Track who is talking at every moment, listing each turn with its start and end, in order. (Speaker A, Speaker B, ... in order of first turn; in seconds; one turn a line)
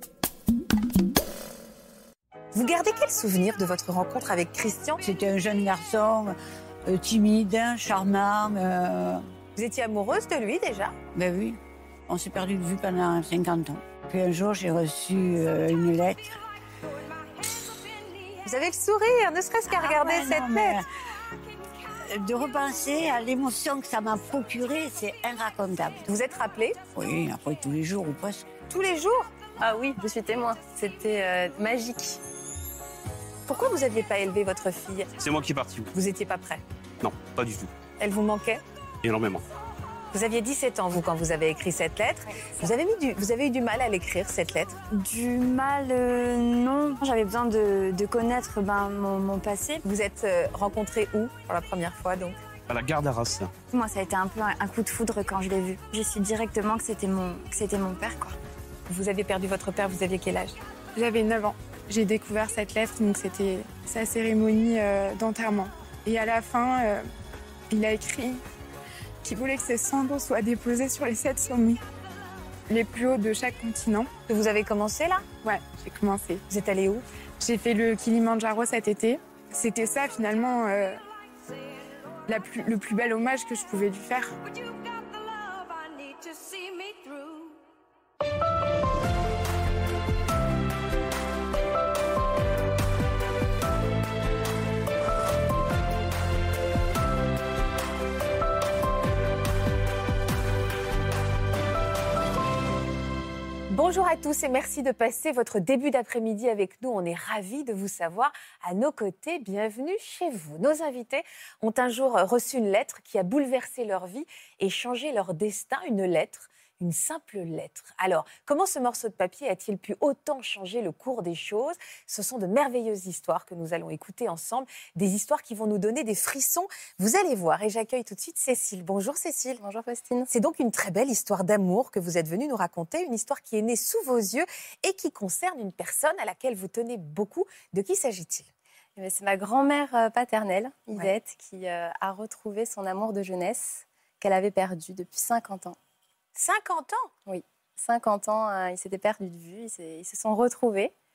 Speaker A: 2.5-5.0
Speaker B: 5.0-9.3
Speaker A: 9.6-10.9
Speaker B: 11.1-16.4
Speaker A: 18.4-20.8
Speaker B: 19.7-20.9
Speaker B: 21.9-26.1
Speaker A: 26.1-26.8
Speaker B: 26.9-28.5
Speaker A: 28.7-29.3
Speaker C: 29.6-32.2
Speaker A: 33.5-35.1
Speaker D: 35.2-35.9
Speaker A: 35.9-36.6
Speaker D: 37.0-37.7
Speaker A: 38.0-38.6
Speaker D: 39.0-39.4
Speaker A: 40.1-44.8
Speaker E: 44.9-49.8
Speaker A: 49.8-52.4
Speaker D: 52.7-53.5
Speaker E: 53.7-58.4
Speaker A: 58.9-60.5
Speaker F: 61.0-67.0
Speaker F: 67.7-68.4
Speaker F: 69.2-71.8
Speaker F: 72.7-74.1
Speaker A: 74.3-75.2
Speaker F: 75.4-76.4
Speaker A: 76.5-77.0
Speaker F: 77.4-81.0
Speaker F: 82.2-84.4
Speaker A: 103.7-129.6
Speaker C: 129.6-130.3
Speaker A: 130.3-138.5
Speaker C: 139.0-145.8
Speaker A: 146.3-147.1
Speaker C: 147.2-150.9